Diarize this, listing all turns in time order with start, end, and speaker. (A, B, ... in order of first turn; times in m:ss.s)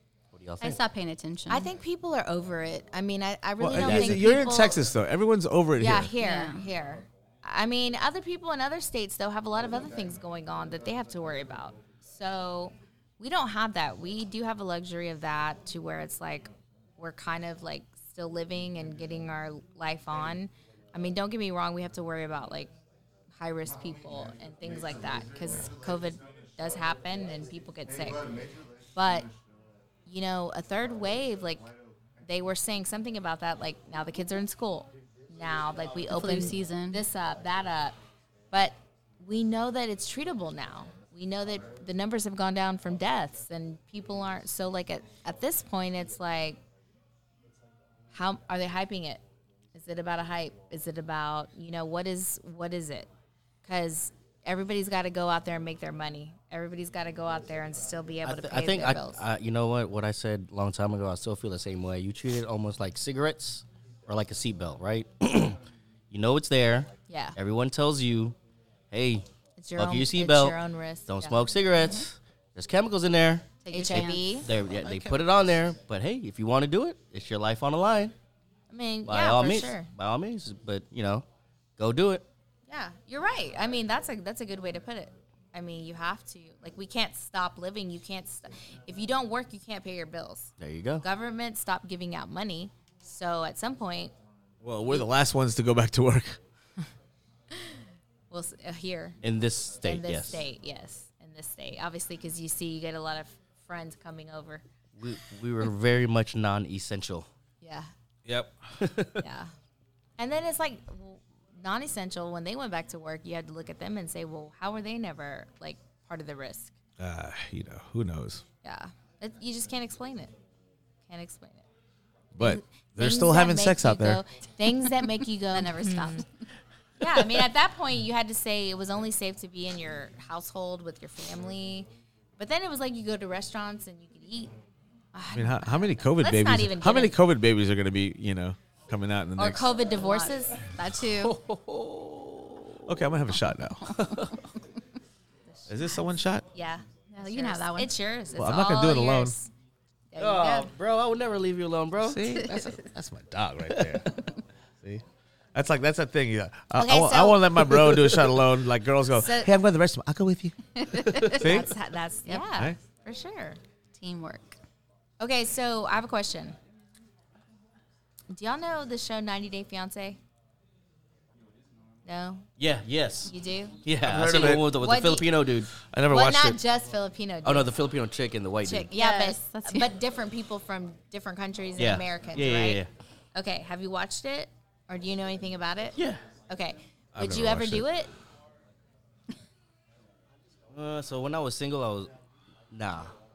0:00.3-0:00.8 A
0:00.6-0:01.7 B
0:01.5-0:04.8 C
0:03.6-0:06.1 D
0:03.8-0:04.2 A
0:05.8-0:22.7 C
0:06.2-0:06.6 B
0:23.4-0:28.2 C
0:28.9-0:29.3 C
0:30.1-0:31.7 C
0:32.2-0:38.0 C
0:36.1-0:37.0 B
0:38.5-0:46.6 C
0:48.1-0:49.2 C
0:49.7-0:53.1 C
0:53.6-0:59.2 C
0:58.2-1:05.6 A
1:06.1-1:08.3 A
1:07.1-1:07.3 C
1:08.9-1:09.2 A
1:09.6-1:11.4 C
1:09.8-1:18.1 A
1:13.6-1:14.4 B
1:13.7-1:14.5 C
1:18.7-1:19.9 C
1:19.0-1:21.2 A
1:21.8-1:22.2 A
1:22.7-1:30.5 C
1:30.6-1:31.0 A
1:31.0-1:34.1 C
1:34.6-1:36.4 D
1:38.3-1:39.2 C
1:39.2-1:40.4 A
1:39.8-1:44.6 C
1:45.0-1:47.3 A
1:47.6-1:47.9 C
1:48.3-1:49.2 A
1:49.2-1:49.5 C
1:50.2-1:56.7 C
1:57.0-1:58.4 D
1:58.6-2:00.3 C
2:01.1-2:01.6 C
2:02.3-2:04.2 D
2:02.4-2:06.2 C
2:05.5-2:06.2 B
2:07.0-2:14.5 C
2:15.1-2:17.2 C
2:15.3-2:19.7 D
2:19.4-2:20.6 C
2:19.9-2:21.4 B
2:21.1-2:23.0 A
2:22.8-2:24.0 D
2:23.9-2:24.4 A
2:25.5-2:29.5 C
2:25.7-2:26.4 D
2:27.1-2:27.9 B
2:28.4-2:29.3 D
2:30.1-2:30.7 C
2:30.2-2:32.3 A
2:32.0-2:34.1 D
2:33.7-2:34.1 A
2:35.5-2:40.6 D
2:36.7-2:37.6 C
2:37.7-2:38.2 A
2:39.1-2:39.5 C
2:40.8-2:41.5 B
2:41.2-2:41.7 D
2:41.3-2:43.6 C
2:42.3-2:42.6 B
2:44.0-2:44.6 B
2:45.2-2:46.6 C
2:48.3-2:50.2 C
2:52.0-2:52.4 C
2:52.6-2:53.3 A
2:53.3-2:53.8 C
2:53.8-2:55.7 A
2:54.0-2:54.7 D
2:54.6-2:55.2 C
2:55.9-2:56.6 D
2:56.1-2:57.7 C
2:57.4-2:58.9 A
2:58.6-3:02.8 C
2:58.9-2:59.9 B
3:01.8-3:02.9 A
3:03.3-3:06.0 C
3:06.0-3:06.2 A
3:06.5-3:08.1 C
3:07.1-3:07.8 D
3:10.7-3:12.1 A
3:12.7-3:13.1 A